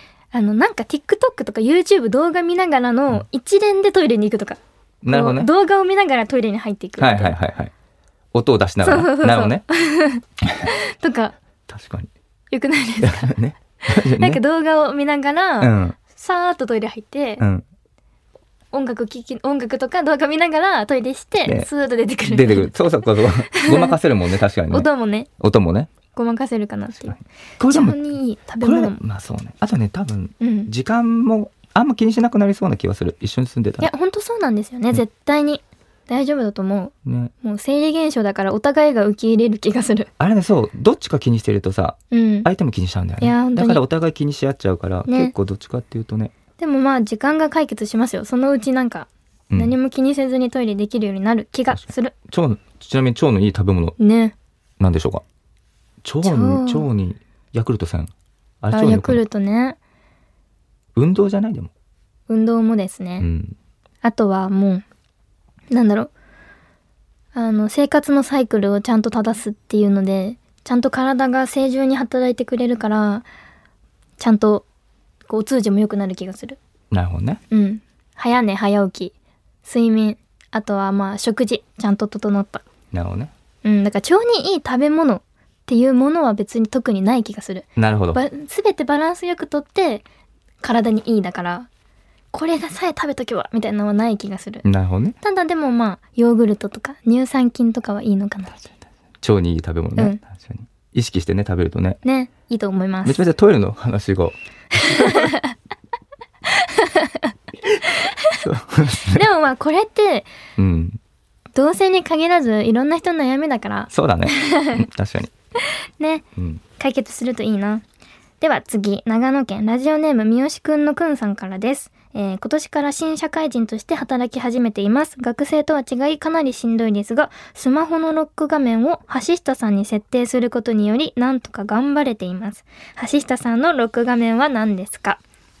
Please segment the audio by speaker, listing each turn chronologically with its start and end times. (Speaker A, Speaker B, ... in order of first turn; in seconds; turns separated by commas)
Speaker A: 0.3-7.3, Speaker B: 5.0-5.5, Speaker B: 7.0-7.7, Speaker B: 8.3-9.6, Speaker A: 8.8-11.3, Speaker B: 11.7-12.1, Speaker A: 12.5-13.3, Speaker B: 13.0-14.4, Speaker A: 14.2-17.4, Speaker B: 15.6-16.0, Speaker B: 17.4-17.6, Speaker A: 18.7-22.8, Speaker B: 22.2-24.9, Speaker A: 23.5-24.0, Speaker A: 24.7-25.3, Speaker B: 25.4-25.9, Speaker A: 26.1-29.0, Speaker B: 26.9-33.9, Speaker A: 30.4-30.7, Speaker A: 33.8-40.1, Speaker B: 37.0-37.3, Speaker B: 40.2-46.3, Speaker A: 42.1-42.5, Speaker A: 43.2-43.8, Speaker A: 45.1-45.3, Speaker A: 46.6-52.1, Speaker B: 51.7-54.0, Speaker A: 54.0-54.3, Speaker B: 54.8-55.2, Speaker B: 56.0-58.1, Speaker A: 56.2-56.9, Speaker B: 58.6-59.2, Speaker A: 58.7-59.8, Speaker B: 61.0-61.7, Speaker A: 62.3-63.3, Speaker B: 63.2-63.5, Speaker A: 64.0-64.8, Speaker A: 65.7-66.1, Speaker A: 67.3-73.2, Speaker A: 74.2-74.7, Speaker A: 75.3-76.6, Speaker B: 76.9-77.4, Speaker A: 77.5-79.1, Speaker A: 79.6-82.6, Speaker B: 82.9-83.3, Speaker A: 83.6-90.0, Speaker B: 87.8-88.2, Speaker A: 90.6-91.7, Speaker A: 92.3-94.6, Speaker B: 94.6-95.2, Speaker A: 95.2-98.7, Speaker B: 99.2-102.0, Speaker A: 102.0-103.2, Speaker B: 103.0-105.3, Speaker A: 104.8-105.5, Speaker A: 106.5-107.3, Speaker A: 108.0-108.3, Speaker B: 108.3-109.3, Speaker A: 109.1-110.3, Speaker B: 110.6-111.0, Speaker A: 111.5-114.8, Speaker B: 113.9-115.3, Speaker A: 116.0-116.2, Speaker B: 116.3-116.6, Speaker A: 116.8-117.8, Speaker A: 118.4-135.2